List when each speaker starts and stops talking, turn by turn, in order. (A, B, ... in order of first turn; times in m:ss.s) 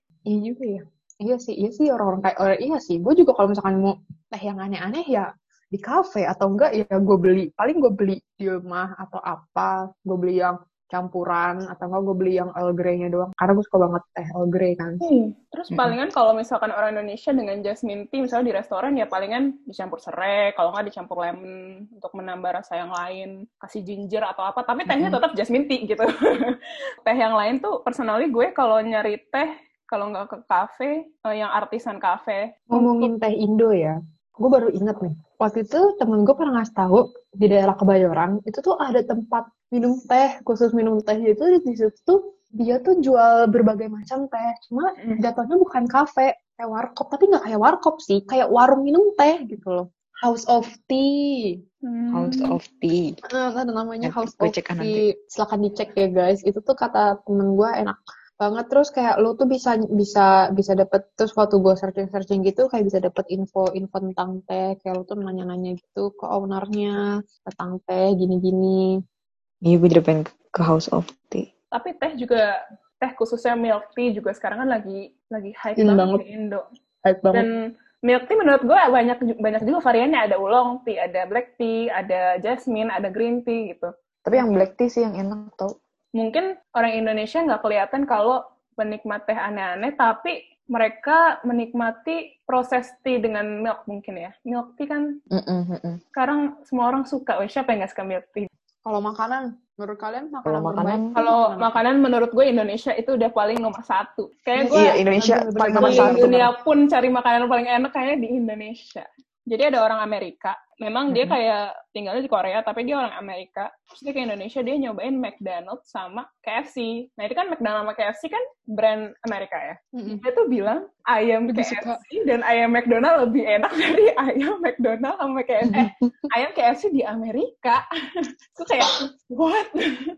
0:00.3-0:15.0 A
0:15.0-0:33.1 B
0:24.9-0:25.2 C
0:32.7-0:51.6 A
0:45.0-0:45.2 B
0:51.8-0:52.6 B
0:52.1-0:53.1 C
0:53.3-1:08.9 A
0:54.0-0:55.0 C
1:09.6-1:11.5 C
1:11.7-1:16.6 B
1:15.8-1:16.2 A
1:17.0-1:17.4 A
1:17.3-1:23.9 B
1:24.2-1:25.7 C
1:26.2-1:35.1 B
1:35.3-1:36.0 C
1:36.2-1:38.5 B
1:38.8-1:41.8 A
1:40.4-1:41.1 C
1:41.2-1:45.0 B
1:44.5-1:46.5 A
1:44.7-1:46.4 C
1:45.8-2:07.8 B
1:59.9-2:00.2 A
2:01.5-2:02.0 A
2:05.7-2:05.9 C
2:08.6-2:09.8 B